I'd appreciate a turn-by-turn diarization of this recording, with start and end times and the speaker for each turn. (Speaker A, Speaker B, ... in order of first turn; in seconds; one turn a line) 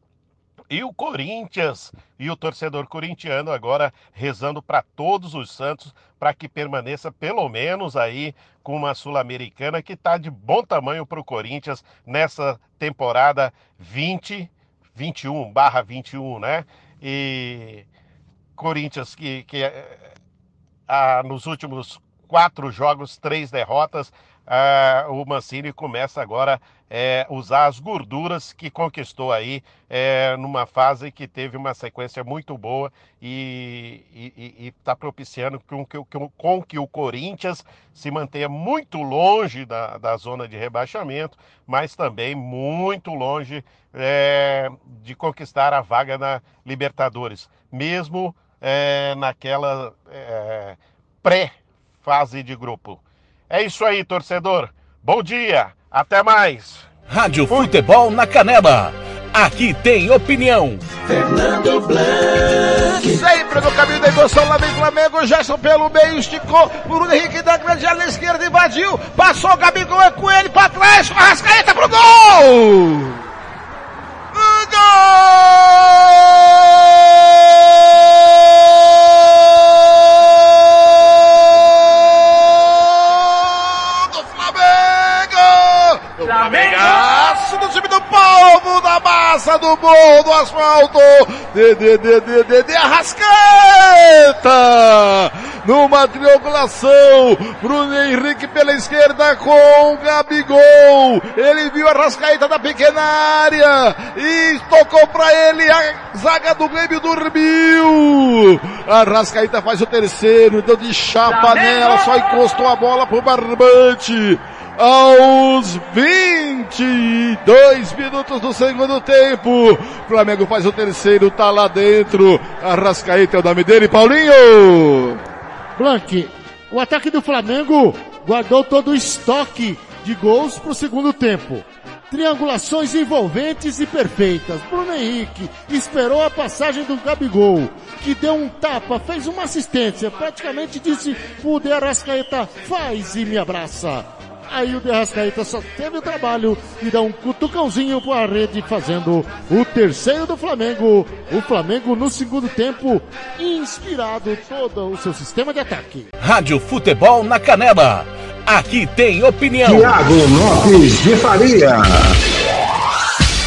Speaker A: 0.7-17.9
Speaker A: 18.6-20.1
Speaker A: 20.9-56.9
Speaker B: 57.1-60.9
Speaker C: 61.0-63.2
Speaker D: 63.0-73.2
Speaker D: 74.3-125.2
Speaker C: 86.3-87.0
Speaker E: 125.8-156.1
Speaker B: 156.2-160.0
Speaker F: 159.7-162.2